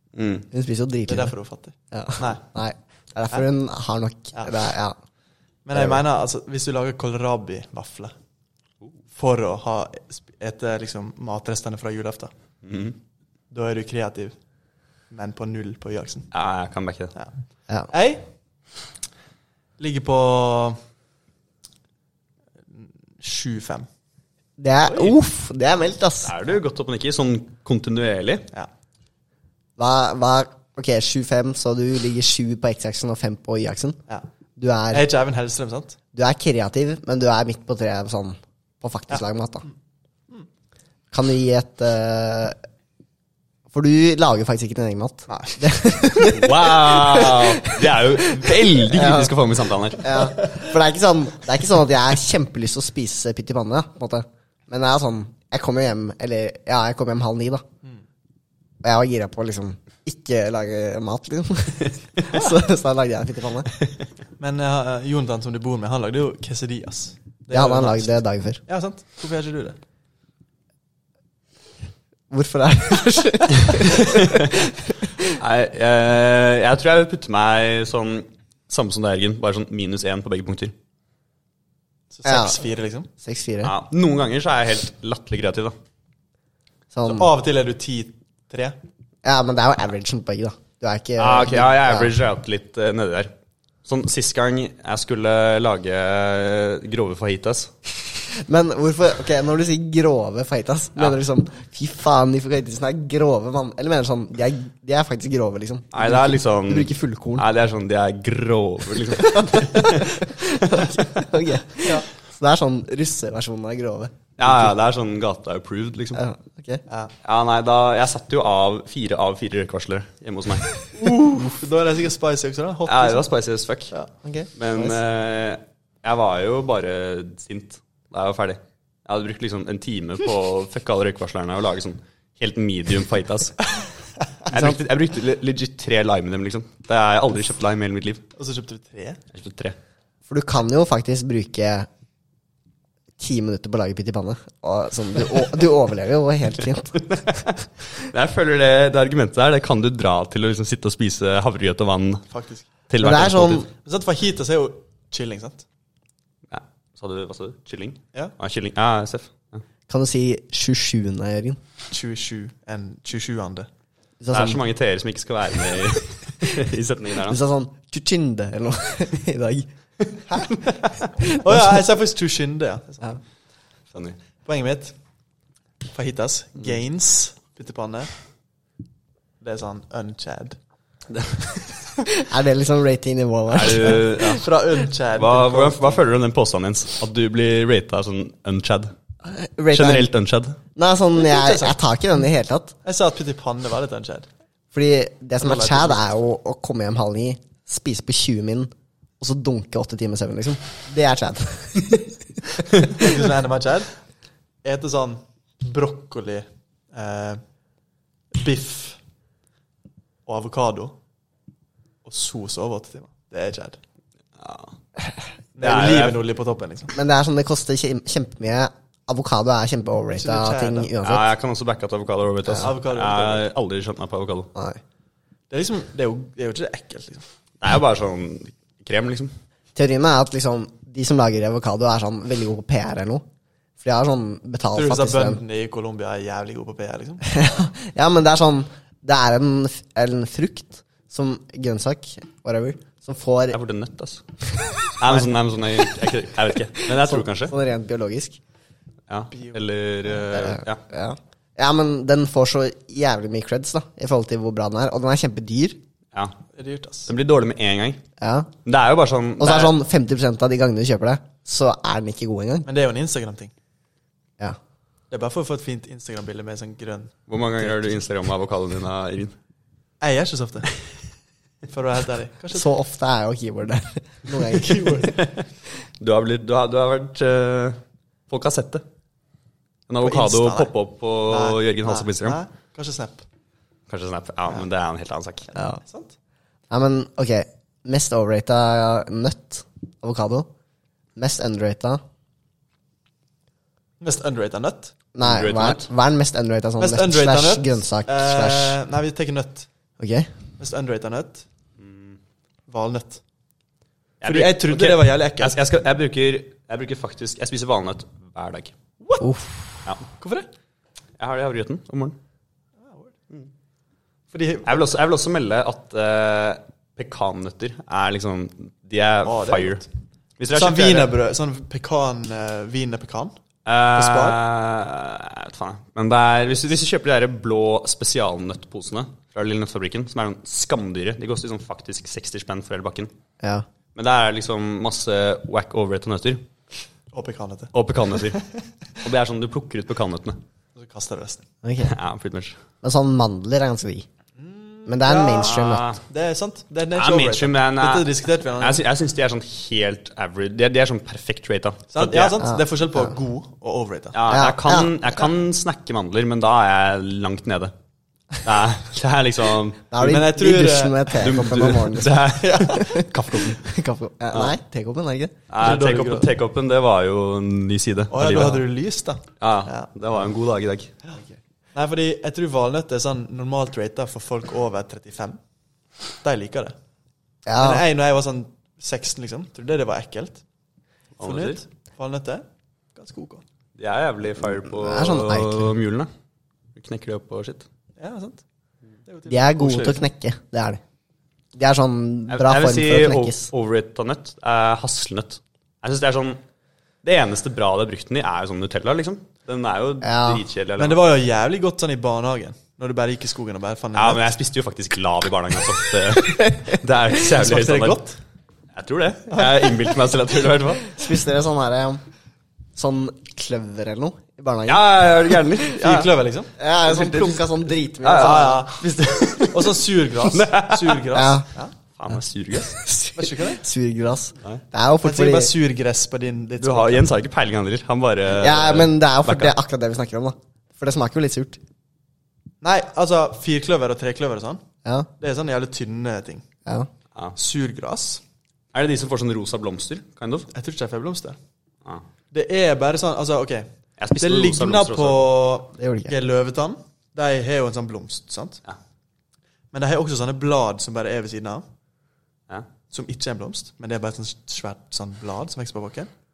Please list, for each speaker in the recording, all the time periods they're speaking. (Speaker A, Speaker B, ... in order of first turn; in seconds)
Speaker A: 0.1-0.5, 12.6-13.0, 16.3-17.1, 26.2-28.5, 46.3-50.3, 74.0-74.5, 75.2-80.7, 83.6-85.7, 91.2-93.3, 93.8-97.7, 105.9-111.1, 114.4-116.2, 117.2-120.9, 122.9-123.9, 124.5-133.8, 134.5-138.2, 139.3-139.8, 147.0-152.3, 152.9-153.7, 156.5-159.6, 164.3-167.4, 173.9-174.2, 181.1-181.7, 183.5-184.5, 185.2-188.9, 189.7-190.6, 214.4-214.7, 215.6-216.2, 221.0-224.5, 227.6-229.3, 243.5-244.2, 244.9-247.5, 249.1-250.8, 257.1-258.0, 258.6-259.8, 267.3-269.3, 275.1-275.3, 276.0-278.8, 279.9-282.4, 283.9-285.5, 295.2-295.9, 301.8-302.1, 304.2-308.7, 311.2-312.2, 314.6-319.9, 320.4-321.1, 323.6-333.1, 333.9-336.4, 337.7-338.4, 339.0-340.4, 341.8-342.6, 345.3-346.0, 346.9-352.4, 354.1-357.7, 358.4-359.9, 361.1-363.7, 365.5-368.7, 369.4-370.9, 381.2-381.6, 383.8-386.1, 386.7-387.6, 392.3-396.4, 397.0-401.0, 403.9-408.0, 408.7-410.9, 414.7-416.1, 416.9-417.5, 418.0-421.1, 421.9-422.8, 426.6-429.5, 438.7-440.5, 444.0-445.3
Speaker B: 0.5-1.3, 1.9-5.0, 5.7-6.0, 24.6-26.3, 29.8-34.0, 34.6-35.1, 36.1-39.6, 41.1-42.6, 43.7-49.4, 50.0-57.6, 58.8-63.7, 67.5-68.6, 72.3-74.7, 82.2-82.6, 83.2-83.7, 86.9-87.3, 89.2-92.1, 98.3-107.4, 109.2-114.1, 116.1-116.8, 124.2-125.0, 140.3-141.9, 143.2-147.1, 153.0-153.7, 159.9-161.6, 164.2-164.6, 167.2-169.7, 171.2-171.6, 182.1-184.3, 189.2-190.1, 190.7-192.7, 194.7-202.1, 216.9-221.3, 224.5-224.8, 229.7-233.2, 233.8-235.4, 237.2-243.6, 246.9-248.4, 250.3-255.8, 258.2-258.5, 259.4-262.7, 272.5-275.1, 286.7-290.5, 291.1-292.0, 295.1-298.8, 300.0-300.3, 309.2-309.7, 341.6-341.9, 342.8-344.1, 344.9-345.9, 352.4-353.1, 354.3-354.9, 359.9-365.3, 377.4-377.8, 384.7-385.7, 389.3-390.8, 391.5-393.5, 400.0-400.4, 410.9-412.0, 412.8-414.8, 416.6-418.7, 421.1-421.4, 422.7-425.5, 428.3-431.6, 445.8-446.1
Speaker C: 1.1-2.4, 5.6-8.1, 9.1-12.3, 13.5-14.3, 15.1-16.3, 17.9-18.2, 19.8-20.8, 22.8-23.9, 34.9-36.0, 45.3-45.6, 64.4-69.8, 82.1-83.1, 87.0-88.8, 121.0-123.3, 138.4-139.2, 152.3-152.7, 153.8-155.6, 161.9-163.7, 171.4-173.2, 174.4-174.9, 175.9-178.1, 179.4-180.6, 184.2-186.0, 191.2-191.8, 192.8-194.3, 195.4-196.0, 202.9-203.9, 204.6-207.4, 208.3-209.0, 210.2-210.9, 212.0-213.8, 215.6-216.9, 220.1-220.9, 222.5-223.4, 225.5-227.2, 234.7-237.2, 249.3-249.6, 256.5-257.1, 262.6-263.5, 265.1-267.9, 270.0-270.7, 271.7-272.7, 274.3-275.1, 280.0-280.7, 281.3-283.2, 285.8-286.1, 294.0-294.9, 296.8-299.7, 300.6-301.4, 302.7-303.2, 304.2-305.6, 310.2-310.5, 312.8-313.1, 314.3-314.8, 319.2-319.9, 320.5-323.4, 323.9-324.4, 337.1-337.7, 340.8-341.4, 344.4-348.8, 351.9-354.2, 360.0-361.2, 362.4-362.8, 365.6-366.3, 368.1-369.9, 371.7-375.4, 376.2-376.7, 377.6-380.4, 381.2-383.4, 388.0-388.4, 389.1-390.0, 400.8-404.2, 407.3-408.2, 415.7-416.5, 418.1-418.8, 419.5-421.7, 423.1-423.6, 425.0-427.1, 432.6-434.6, 435.2-436.4, 437.4-438.2, 440.5-441.4, 442.3-448.6, 449.7-451.6, 452.9-456.1